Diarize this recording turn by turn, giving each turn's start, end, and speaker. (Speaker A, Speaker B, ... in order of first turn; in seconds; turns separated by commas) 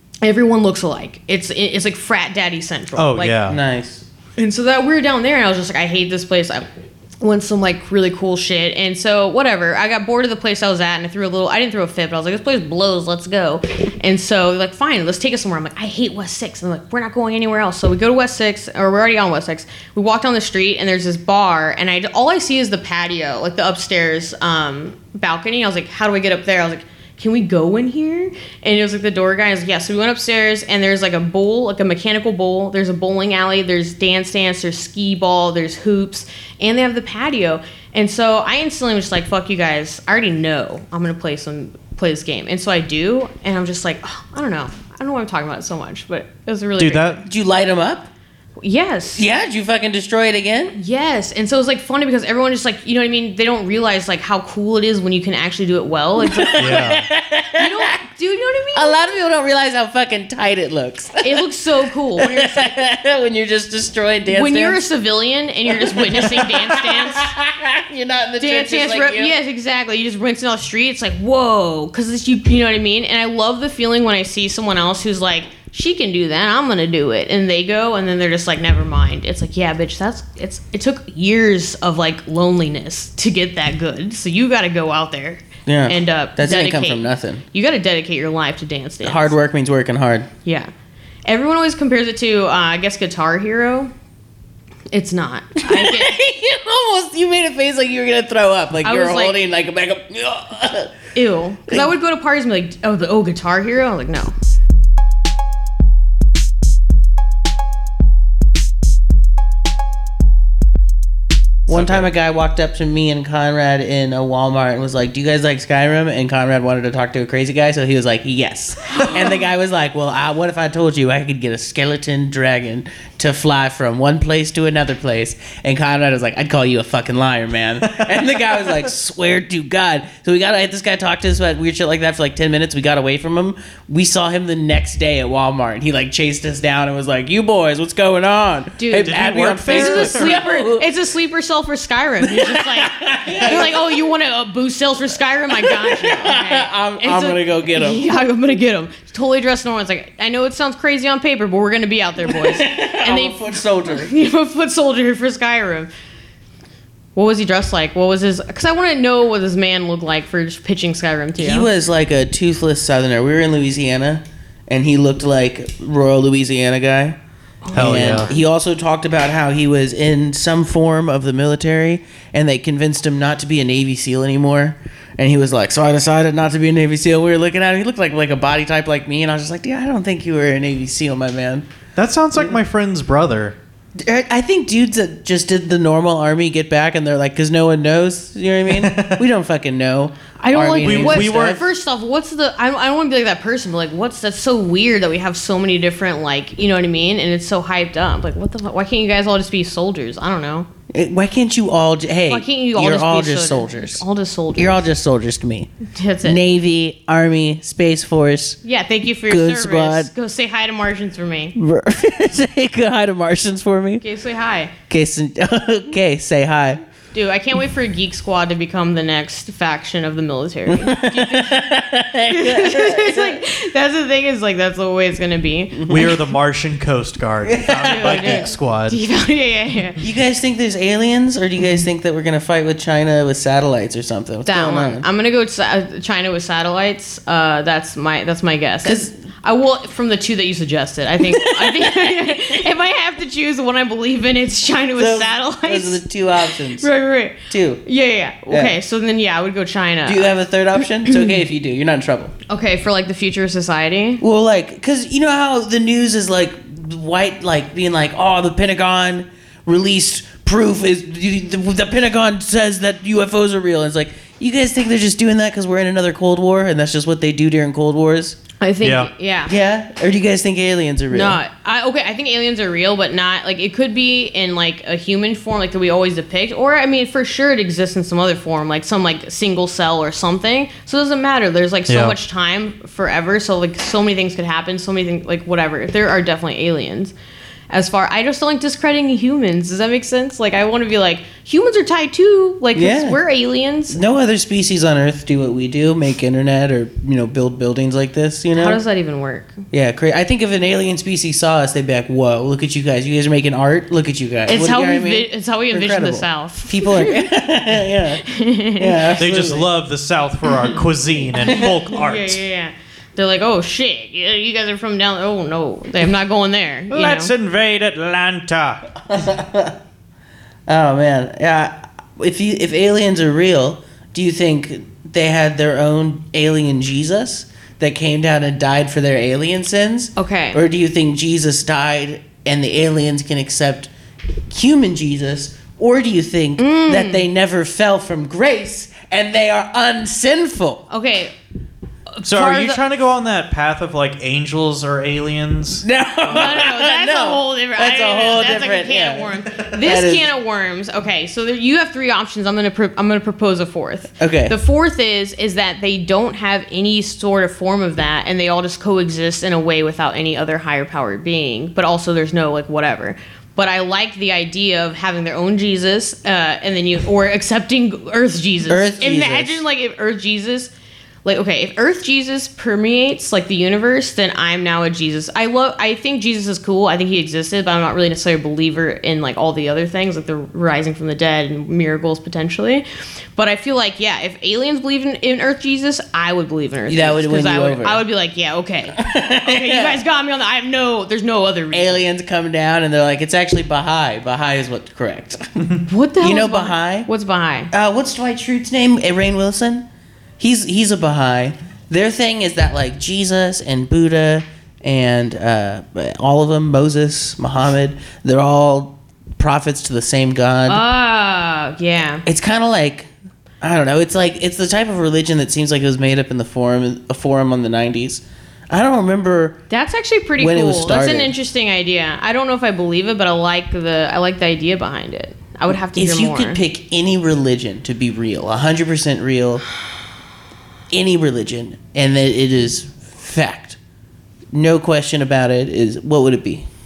Speaker A: 0.2-3.4, Speaker B: 3.0-3.6, Speaker C: 3.5-4.0, Speaker A: 4.4-6.7, Speaker A: 7.2-47.2, Speaker B: 46.8-47.2, Speaker C: 47.2-48.1, Speaker A: 48.6-49.3, Speaker C: 49.2-50.8, Speaker A: 50.7-56.9, Speaker C: 56.2-58.0, Speaker B: 56.6-57.1, Speaker A: 57.6-59.1, Speaker C: 58.7-61.4, Speaker A: 61.2-62.8, Speaker C: 62.2-64.8, Speaker A: 64.3-67.3, Speaker C: 65.7-69.3, Speaker A: 68.4-89.4, Speaker C: 85.7-87.4, Speaker C: 89.0-90.3, Speaker A: 90.5-90.7, Speaker A: 91.3-93.9, Speaker A: 94.9-96.1, Speaker C: 95.7-101.0, Speaker A: 98.8-99.4, Speaker A: 101.2-104.4, Speaker C: 111.7-140.9, Speaker B: 111.7-112.1, Speaker A: 138.8-155.9, Speaker B: 139.1-140.4, Speaker C: 142.2-144.0, Speaker C: 145.6-148.1, Speaker C: 152.2-154.1, Speaker A: 157.2-161.7, Speaker C: 161.4-167.2, Speaker A: 167.6-168.4, Speaker B: 167.7-168.3, Speaker C: 167.7-181.7, Speaker B: 182.0-183.6, Speaker C: 184.0-191.6, Speaker B: 188.7-189.2, Speaker A: 190.4-200.7, Speaker B: 190.8-191.6, Speaker C: 200.9-204.0, Speaker A: 202.3-204.9, Speaker C: 204.6-205.7, Speaker A: 205.9-206.4, Speaker C: 206.2-208.6, Speaker A: 208.6-211.6, Speaker C: 209.3-210.1, Speaker C: 211.6-214.0, Speaker A: 214.0-214.7, Speaker C: 214.9-216.8, Speaker A: 217.1-221.6, Speaker C: 220.7-223.4, Speaker A: 222.3-226.2, Speaker C: 225.7-226.1, Speaker B: 225.9-229.0, Speaker C: 227.5-228.5, Speaker A: 227.8-230.0, Speaker C: 230.0-235.1, Speaker A: 234.4-250.3, Speaker C: 238.8-239.2, Speaker C: 241.4-242.2, Speaker C: 245.0-246.9, Speaker C: 247.5-247.8, Speaker C: 248.5-248.8, Speaker C: 250.1-252.3, Speaker A: 251.1-251.4, Speaker A: 252.5-254.2, Speaker C: 254.2-268.4, Speaker A: 268.6-269.5, Speaker B: 268.8-269.1, Speaker C: 269.4-271.4, Speaker A: 271.1-287.1, Speaker B: 281.9-282.2, Speaker A: 287.7-294.0, Speaker C: 292.8-293.2, Speaker C: 293.9-298.8, Speaker A: 298.5-299.6, Speaker C: 299.7-308.2, Speaker A: 304.5-307.2, Speaker A: 308.2-309.1, Speaker C: 308.8-309.7, Speaker B: 309.2-312.4, Speaker A: 311.4-317.3, Speaker B: 316.9-318.9, Speaker C: 319.1-319.8, Speaker C: 320.7-333.9, Speaker A: 330.2-330.6, Speaker C: 334.5-340.9, Speaker A: 336.6-337.3, Speaker A: 340.9-341.4, Speaker A: 342.1-342.8, Speaker B: 342.2-345.8, Speaker C: 345.8-350.3, Speaker A: 346.3-370.7, Speaker C: 354.2-354.6, Speaker C: 368.7-369.6, Speaker A: 371.2-392.1, Speaker C: 386.9-388.0, Speaker C: 389.0-390.0, Speaker C: 391.7-397.1, Speaker A: 395.9-397.7, Speaker C: 397.7-399.9, Speaker C: 400.4-410.8, Speaker A: 410.7-412.2, Speaker C: 412.3-413.1, Speaker C: 413.6-419.6, Speaker A: 419.7-426.6, Speaker C: 420.4-421.3, Speaker C: 425.9-429.6, Speaker C: 430.9-433.8, Speaker C: 434.5-436.7